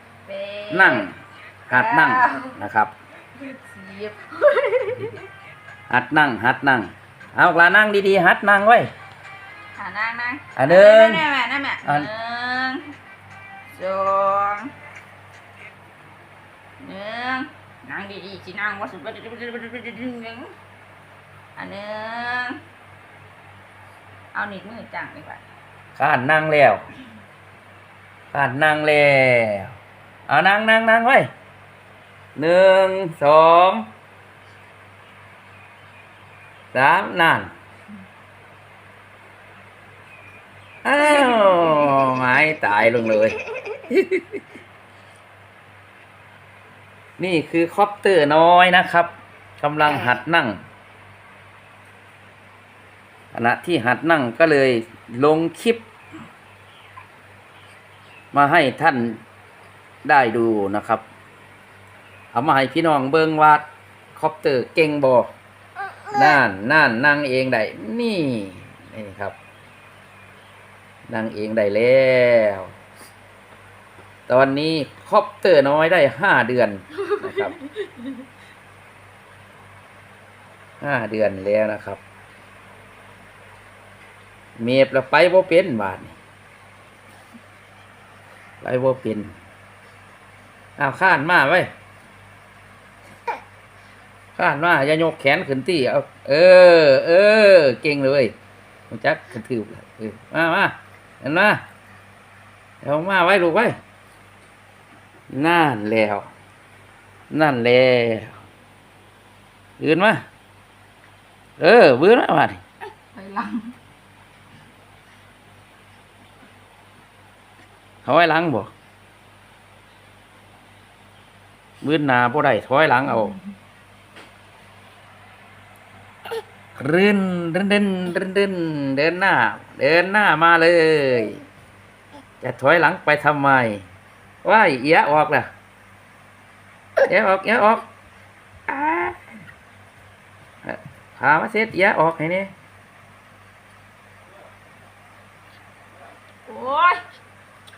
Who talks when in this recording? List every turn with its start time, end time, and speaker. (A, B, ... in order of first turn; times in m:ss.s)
0:00.2-0:01.1 A
0:00.7-0:01.1 B
0:01.7-0:02.6 A
0:01.7-0:02.9 B
0:03.4-0:05.2 A
0:05.9-0:08.9 B
0:09.8-0:12.9 A
0:10.6-0:11.2 B
0:13.7-0:14.7 A
0:16.8-0:20.5 A
0:21.6-0:22.6 A
0:24.3-0:25.4 A
0:26.0-0:26.8 B
0:28.3-0:29.8 B
0:30.3-0:31.3 B
0:32.4-0:33.9 B
0:36.7-0:37.5 B
0:40.8-0:43.4 B
0:41.3-0:42.0 A
0:43.9-0:44.4 B
0:47.2-0:50.6 B
0:53.3-0:55.8 B
0:58.3-0:59.2 B
1:00.0-1:01.0 B
1:02.3-1:05.3 B
1:06.1-1:09.4 B
1:11.1-1:12.7 B
1:14.3-1:17.6 B
1:20.8-1:22.0 B
1:24.6-1:26.2 B
1:28.6-1:29.3 B
1:30.8-1:31.7 B
1:34.4-1:38.3 B
1:38.9-1:41.6 B
1:42.8-1:43.8 B
1:45.3-1:46.3 B
1:47.3-1:48.4 B
1:49.8-1:50.2 B
1:51.6-1:52.6 B
1:53.0-1:53.7 A
1:58.0-1:58.7 B
2:01.8-2:03.4 B
2:03.1-2:03.4 A
2:06.8-2:11.4 B
2:12.4-2:13.8 B
2:14.4-2:15.5 B
2:17.0-2:17.8 B
2:18.7-2:19.2 B
2:20.6-2:22.5 B
2:26.5-2:27.0 A